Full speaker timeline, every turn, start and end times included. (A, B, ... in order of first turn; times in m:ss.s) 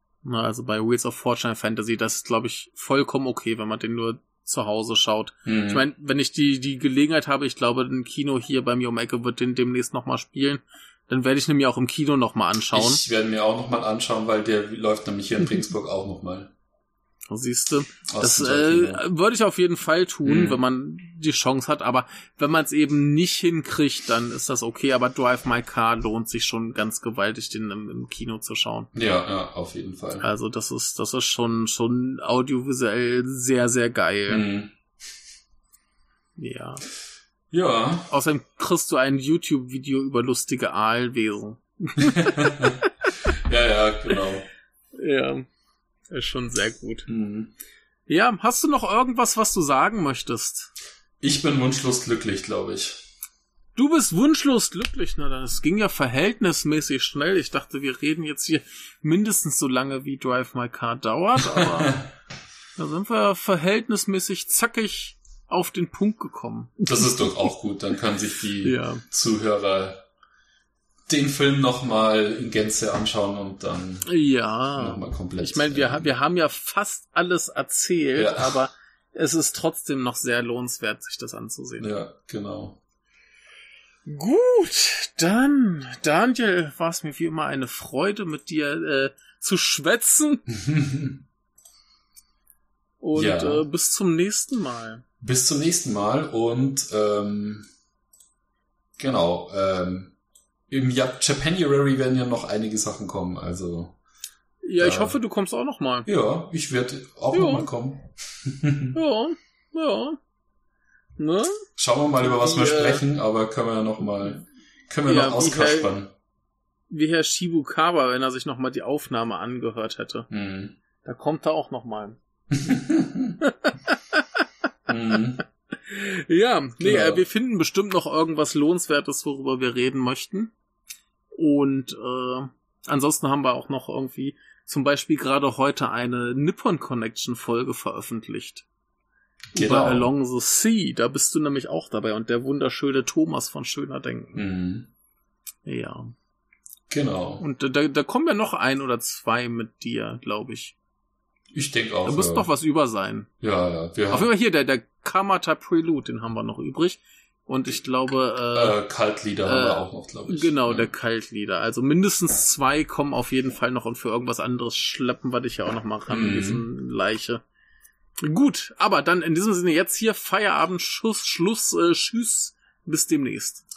0:00.2-0:13.0 A
0:05.4-0:05.8 B
0:12.7-0:16.5 B
0:17.3-0:28.9 A
0:18.1-0:19.0 B
0:20.2-0:20.6 B
0:28.9-0:30.3 B
0:30.2-0:34.4 A
0:34.3-0:34.7 B
0:36.4-0:36.8 A
0:37.5-0:38.1 B
0:38.1-0:42.9 A
0:42.0-0:44.5 B
0:45.0-0:45.5 A
0:46.1-0:47.1 A
0:47.1-0:47.5 B
0:48.1-0:50.7 A
0:51.2-0:53.0 B
0:53.8-1:02.0 A
1:01.5-1:02.1 B
1:02.8-1:07.5 A
1:06.8-1:10.0 B
1:08.6-1:09.0 A
1:11.1-1:14.1 B
1:14.0-1:21.9 A
1:14.8-1:16.1 B
1:18.2-1:18.6 B
1:21.8-1:22.8 B
1:24.1-1:30.4 A
1:30.5-1:31.2 B
1:33.0-1:35.0 A
1:33.1-1:33.6 B
1:35.2-1:37.7 B
1:39.0-1:40.1 B
1:40.7-1:44.0 B
1:44.6-1:46.1 A
1:44.8-1:45.2 B
1:46.0-1:49.0 B
1:47.3-1:47.7 A
1:49.0-1:50.2 A
1:51.2-1:51.6 A
1:51.8-1:56.1 B
1:52.2-1:53.0 A
1:55.1-1:55.9 A
1:56.9-2:00.3 A
2:00.3-2:00.8 B
2:01.0-2:02.2 A
2:02.5-2:03.4 B
2:03.4-2:04.4 A
2:04.9-2:05.4 B
2:05.8-2:10.5 A
2:06.8-2:07.2 B
2:11.4-2:18.6 A
2:19.5-2:20.1 B
2:19.5-2:24.4 A
2:24.3-2:24.9 B
2:25.6-2:26.1 A
2:26.9-2:27.4 B
2:27.4-2:30.7 A
2:31.5-2:32.5 B
2:32.0-2:33.3 A
2:33.4-2:34.3 B
2:34.1-2:38.8 A
2:38.5-2:40.9 B
2:39.4-2:47.4 A
2:46.1-2:46.6 B
2:48.2-2:53.6 A